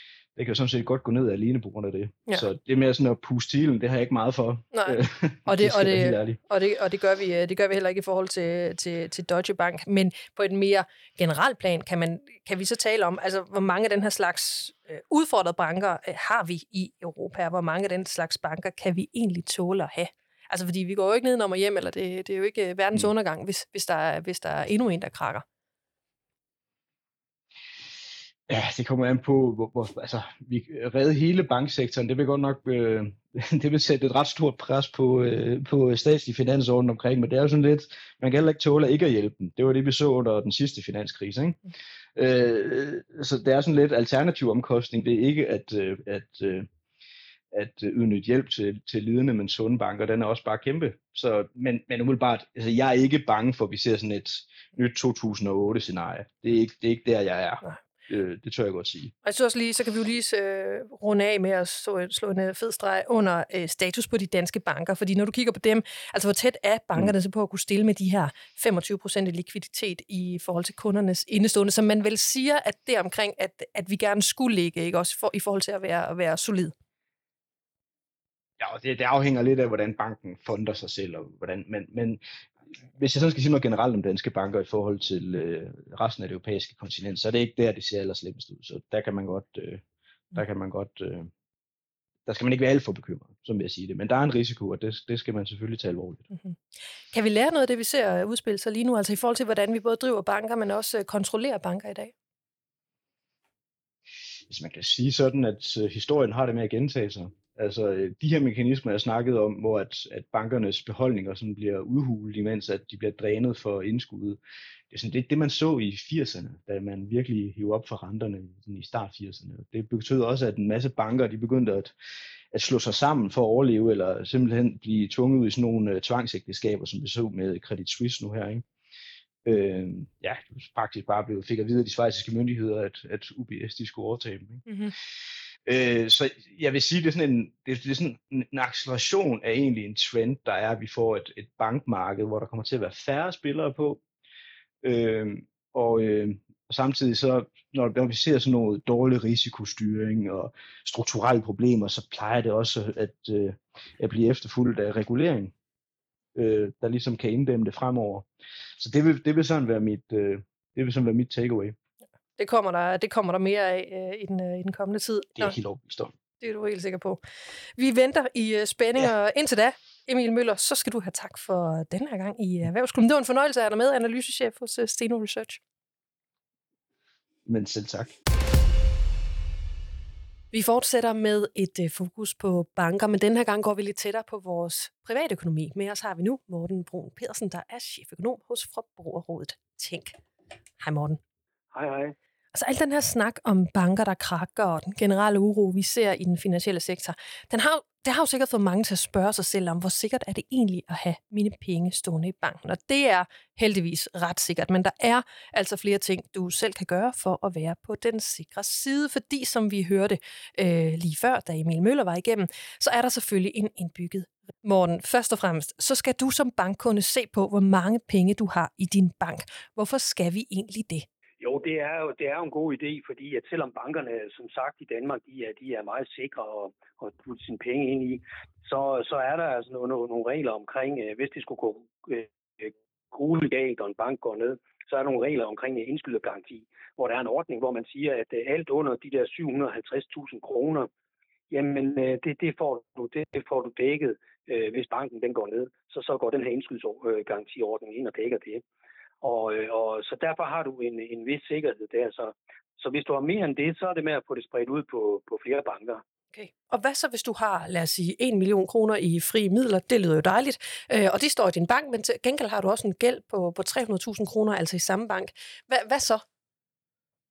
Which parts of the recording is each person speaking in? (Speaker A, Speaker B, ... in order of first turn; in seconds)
Speaker A: 0.3-6.4, 28.5-46.7, 47.5-59.1, 78.6-89.8, 90.3-91.3, 92.2-96.2, 104.5-114.4, 114.9-121.9, 122.5-128.6, 129.4-134.7, 135.7-144.0, 144.8-155.5, 156.3-158.3, 158.8-161.7, 165.4-166.1, 177.4-178.1
Speaker B: 4.7-25.4, 59.2-76.7, 97.1-102.1, 134.7-134.9, 162.4-165.5, 166.4-167.2, 167.8-175.6, 180.5-190.2, 190.8-191.2, 192.5-221.1, 256.3-266.2
Speaker C: 191.7-192.1, 221.4-240.9, 241.5-248.6, 249.2-256.0